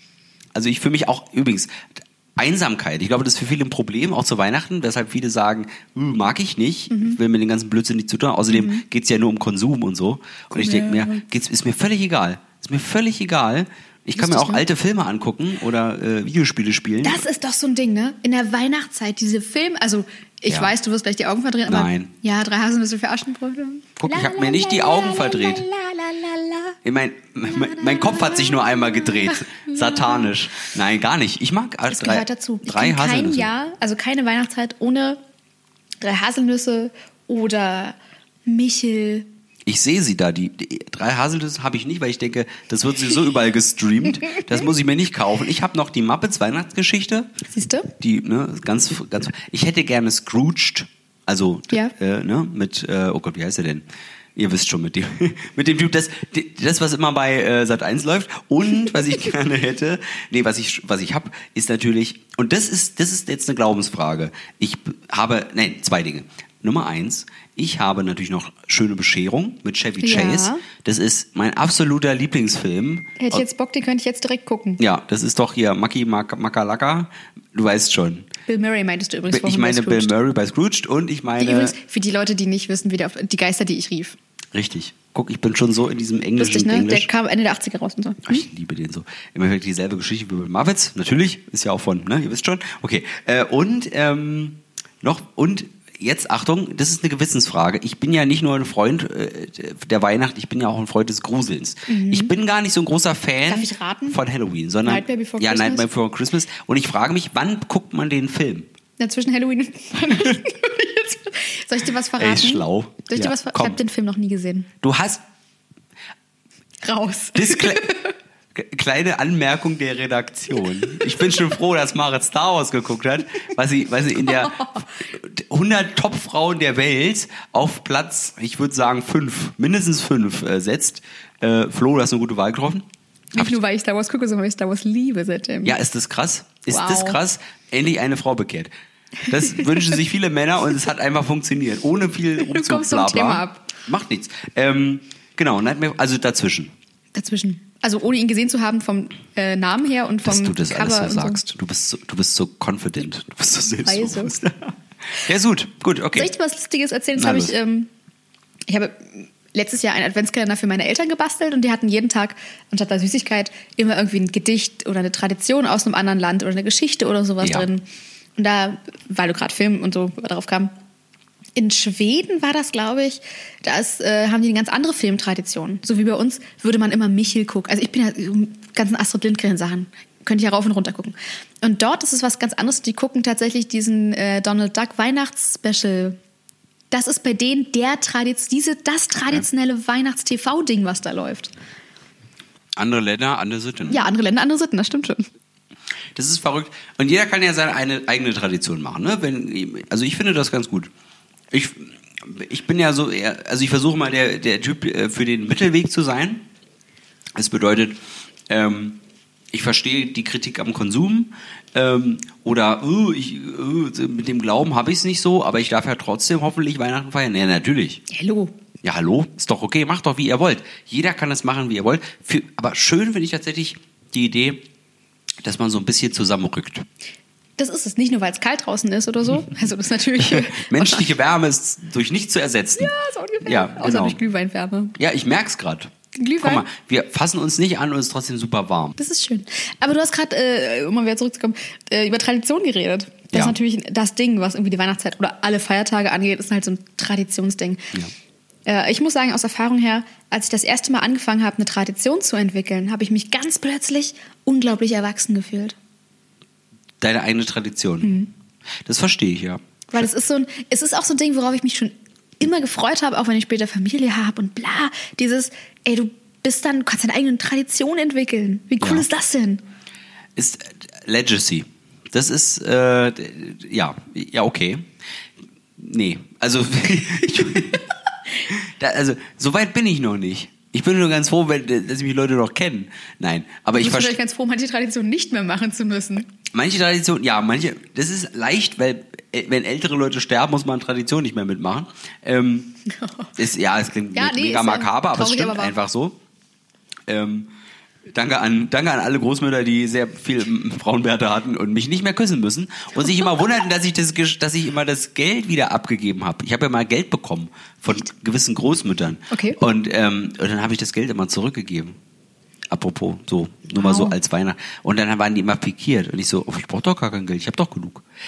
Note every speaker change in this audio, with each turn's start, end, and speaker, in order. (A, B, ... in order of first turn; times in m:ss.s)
0:00.5-0:17.2 A
0:06.9-0:07.2 B
0:08.5-0:08.8 B
0:10.5-0:11.2 B
0:14.2-0:14.6 B
0:17.0-0:26.8 B
0:21.7-0:22.1 A
0:24.0-0:25.6 A
0:26.8-0:33.5 A
0:27.5-0:30.3 B
0:31.9-0:35.2 B
0:36.0-0:39.3 B
0:39.7-0:47.3 A
0:47.5-0:47.9 B
0:48.0-0:53.8 A
0:54.4-1:13.4 A
1:10.0-1:10.6 B
1:13.2-1:14.8 B
1:14.8-1:18.3 A
1:18.5-1:20.1 B
1:19.3-1:21.8 A
1:21.4-1:24.2 B
1:24.5-1:27.1 A
1:26.4-1:28.4 B
1:28.3-1:48.7 A
1:41.9-1:42.3 B
1:43.5-1:44.2 B
1:44.8-1:45.9 B
1:49.0-1:54.7 B
1:52.2-1:53.8 A
1:54.8-1:55.2 A
1:56.8-1:58.1 B
1:57.4-1:57.9 A
1:58.5-2:13.6 A
2:04.3-2:04.8 B
2:13.3-2:15.8 B
2:15.6-2:18.7 A
2:16.7-2:17.2 B
2:19.3-2:26.7 A
2:19.3-2:20.0 B
2:22.4-2:23.7 B
2:27.2-2:31.4 B
2:30.2-2:36.3 A
2:33.8-2:34.3 B
2:36.2-2:37.9 B
2:37.2-2:37.6 A
2:38.7-2:47.8 B
2:47.4-2:47.7 A
2:48.4-2:50.7 B
2:51.6-3:06.2 B
3:06.9-3:11.5 B
3:12.8-3:14.0 A
3:13.9-3:15.3 B
3:16.2-3:20.9 A
3:21.5-3:26.5 A
3:27.4-3:29.0 A
3:29.5-3:38.0 A
3:38.1-3:38.5 B
3:38.8-3:44.6 A
3:45.4-3:46.9 A
3:47.6-3:51.1 B
3:50.2-3:52.9 A
3:52.8-3:55.0 B
3:53.4-3:54.2 A
3:55.0-3:59.0 A
3:56.2-3:56.7 B
3:59.0-4:08.0 B
4:08.7-4:15.8 B
4:17.0-4:18.2 A
4:18.0-4:18.3 B
4:18.8-4:20.0 A
4:19.9-4:29.6 B
4:30.4-4:34.9 A
4:35.8-4:37.9 A
4:38.5-4:44.2 A
4:43.8-4:46.3 B
4:46.5-4:52.8 A
4:52.9-4:53.3 B
4:53.4-4:56.2 A
4:54.1-4:55.8 B
4:57.1-4:57.5 A
4:58.1-5:12.0 A
5:09.3-5:09.6 B
5:12.7-5:18.0 A
5:13.8-5:14.2 B